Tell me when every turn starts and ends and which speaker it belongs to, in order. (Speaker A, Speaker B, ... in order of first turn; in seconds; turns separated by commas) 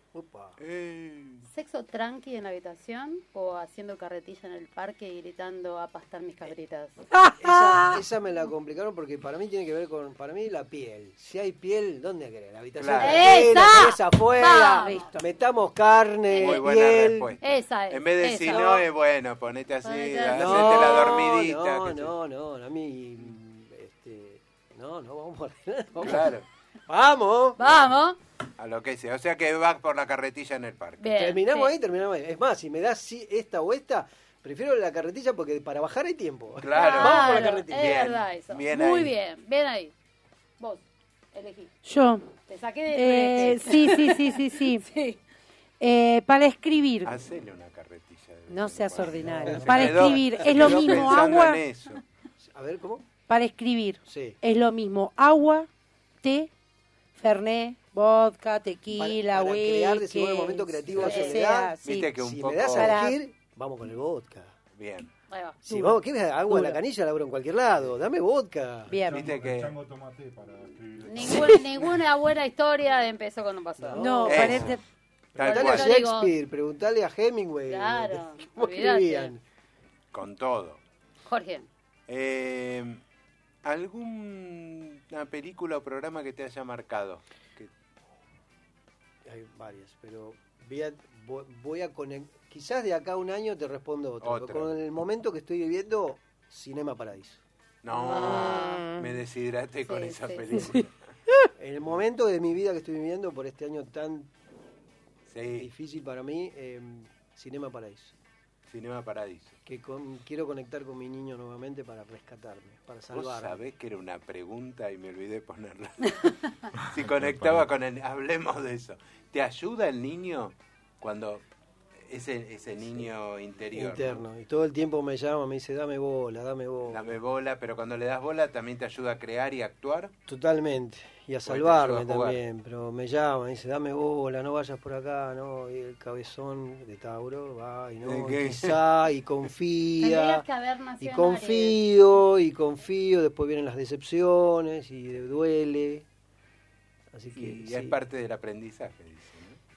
Speaker A: 0.1-0.6, Speaker B: 0.6-1.5, Speaker C: 1.5-7.0, Speaker D: 7.1-8.0, Speaker A: 7.4-17.4, Speaker B: 12.8-13.5, Speaker C: 13.0-15.1, Speaker D: 14.8-15.2, Speaker C: 16.3-16.7, Speaker B: 16.4-22.1, Speaker C: 17.4-18.8, Speaker C: 19.8-21.2, Speaker A: 20.3-27.9, Speaker B: 26.0-26.4, Speaker C: 27.6-28.2, Speaker B: 28.6-31.1, Speaker C: 31.0-31.8, Speaker A: 31.2-38.1, Speaker B: 36.6-39.1, Speaker C: 36.8-39.9, Speaker C: 40.6-41.7, Speaker D: 41.8-42.3, Speaker C: 42.5-45.2, Speaker D: 42.9-44.9, Speaker D: 45.8-47.2, Speaker B: 47.0-52.0, Speaker D: 48.5-51.6, Speaker A: 49.2-51.0, Speaker A: 52.5-53.0, Speaker D: 53.3-55.7, Speaker A: 54.1-54.4, Speaker D: 56.2-56.5, Speaker D: 57.2-62.1, Speaker A: 59.0-64.5, Speaker C: 61.0-61.4, Speaker B: 61.8-63.0, Speaker D: 62.7-63.2, Speaker B: 64.8-65.1, Speaker C: 65.3-65.6, Speaker A: 65.6-69.0, Speaker D: 65.7-66.8, Speaker D: 68.9-69.3, Speaker E: 69.1-71.7, Speaker B: 69.1-69.7, Speaker C: 71.0-74.5, Speaker A: 73.8-74.8, Speaker D: 74.0-74.8, Speaker B: 74.3-74.8, Speaker B: 75.3-75.9, Speaker A: 75.4-79.4, Speaker C: 75.4-76.3, Speaker C: 77.7-79.3, Speaker B: 80.1-80.8, Speaker C: 81.3-81.7, Speaker B: 82.1-83.0, Speaker B: 83.6-87.7, Speaker A: 89.2-97.4, Speaker B: 94.2-94.7, Speaker B: 97.8-100.9, Speaker C: 97.9-98.8, Speaker D: 98.1-99.1, Speaker C: 99.9-100.6, Speaker D: 100.5-100.8, Speaker A: 101.6-104.3, Speaker B: 105.3-105.7, Speaker A: 105.6-108.1, Speaker B: 108.7-109.6, Speaker A: 109.7-113.6, Speaker B: 113.1-121.4, Speaker E: 117.0-117.7, Speaker B: 122.0-124.2, Speaker A: 123.8-127.2, Speaker B: 126.9-130.1, Speaker A: 130.3-140.4, Speaker B: 131.4-132.4, Speaker B: 138.0-138.8, Speaker C: 140.0-141.8, Speaker A: 141.0-146.1, Speaker A: 147.1-148.0, Speaker B: 147.3-149.6